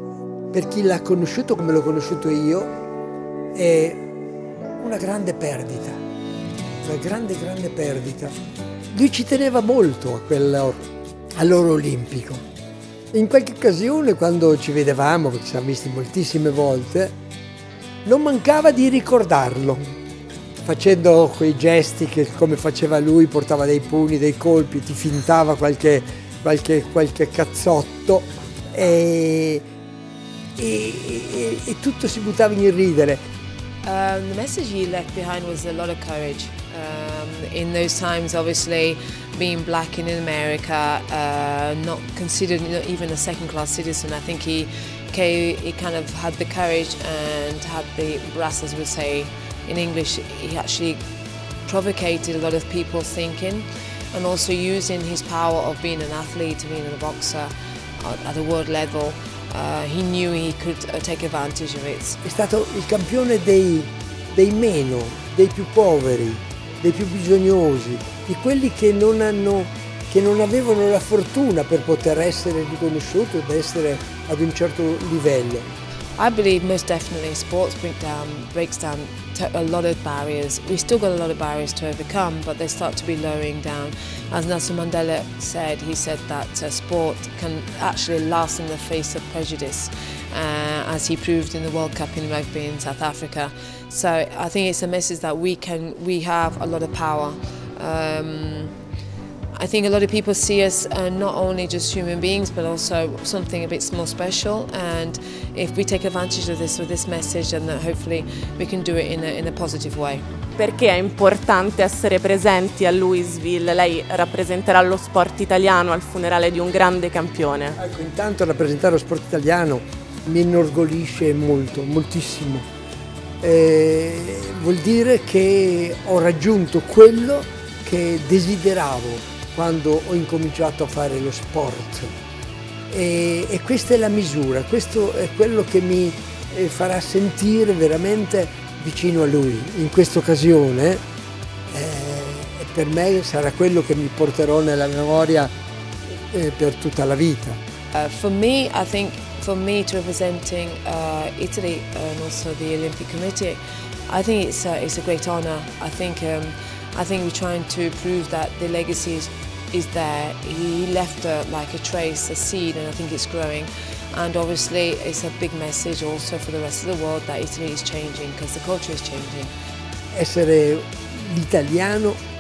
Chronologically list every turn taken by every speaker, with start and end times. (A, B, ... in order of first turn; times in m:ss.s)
0:00.5-0:02.7 A
0:03.5-0:04.0 A
0:04.8-0:06.0 A
0:06.8-0:08.3 A
0:08.9-0:12.4 A
0:13.1-0:17.2 A
0:18.0-0:19.9 A
0:20.6-0:29.7 A
0:30.6-0:33.2 A
0:33.8-0:51.0 B
0:51.7-1:02.2 B
1:02.2-1:15.7 A
1:16.2-1:38.8 B
1:39.6-1:50.2 B
1:50.6-1:57.8 C
1:57.8-2:02.7 A
2:03.4-2:12.1 A
2:12.9-2:21.0 A
2:21.7-2:25.5 A
2:26.1-2:27.6 A
2:27.9-2:49.5 B
2:50.1-2:52.2 A